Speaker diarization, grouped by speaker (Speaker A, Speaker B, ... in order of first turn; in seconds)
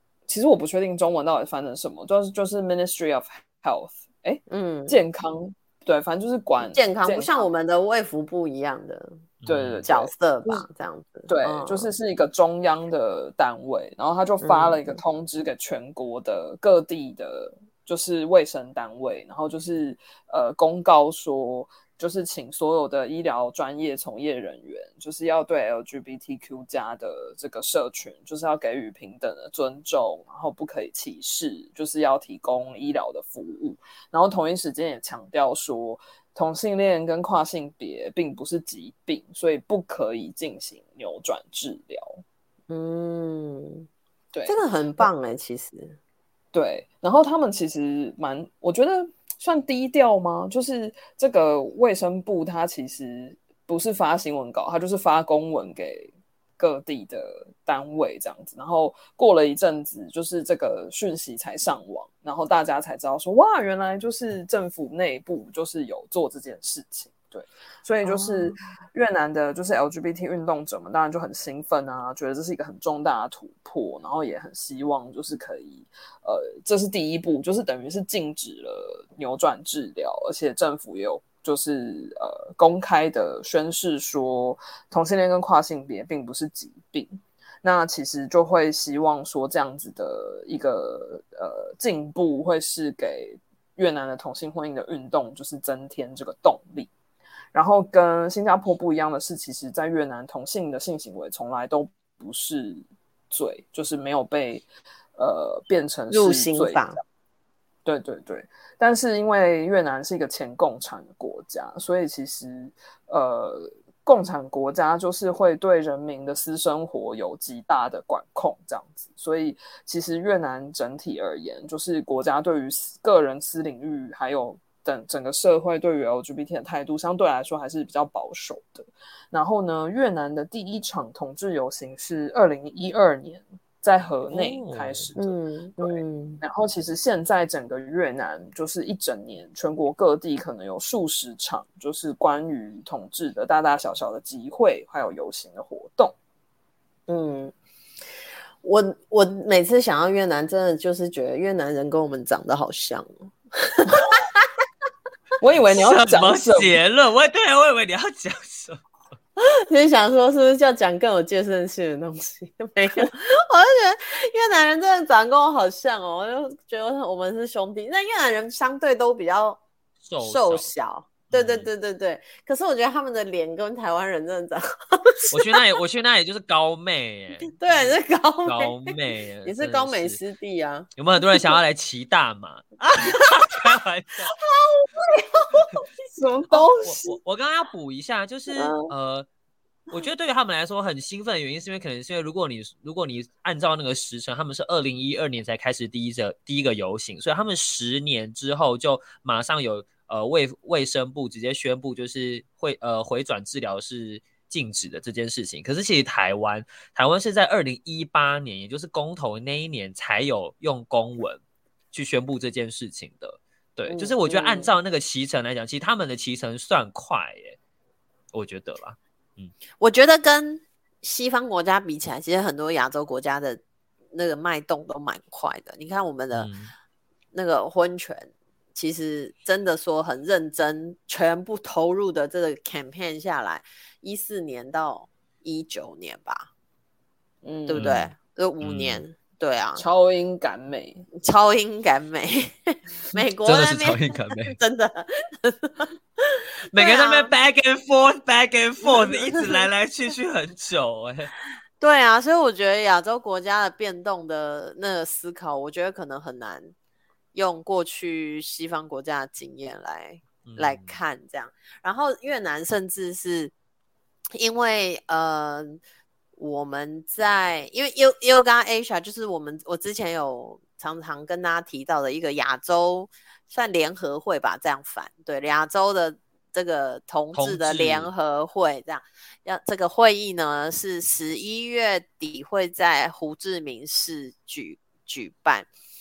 Speaker A: 0.3-7.3, 9.5-10.7, 11.3-42.2, 44.3-45.0, 46.5-96.9, 97.5-106.9, 107.8-146.1, 155.4-156.8, 186.2-187.1, 237.4-237.9, 239.8-241.1
Speaker B: 4.5-5.0, 6.6-9.2, 9.9-11.9, 14.4-14.9, 42.7-43.9, 44.5-46.0, 68.0-68.6, 106.1-107.0, 135.2-136.4, 147.1-147.5, 148.6-154.5, 159.4-169.6, 170.2-175.6, 177.5-178.8, 179.4-181.6, 182.9-183.6, 184.3-185.8, 188.6-188.9, 213.9-214.7, 219.8-223.6, 224.1-226.5, 227.3-236.5, 237.7-239.8, 241.2-247.3, 248.9-249.7, 251.8-256.7, 257.3-263.5, 264.4-265.8, 266.4-285.7
Speaker C: 9.4-9.9, 134.3-135.1, 155.7-158.8, 170.1-170.7, 171.3-171.7, 175.3-180.2, 181.0-184.3, 186.8-189.3, 189.9-211.4, 211.9-217.6, 218.3-219.5, 226.3-226.7, 237.7-239.1, 243.4-244.6, 246.7-251.3, 260.4-261.0, 277.3-278.1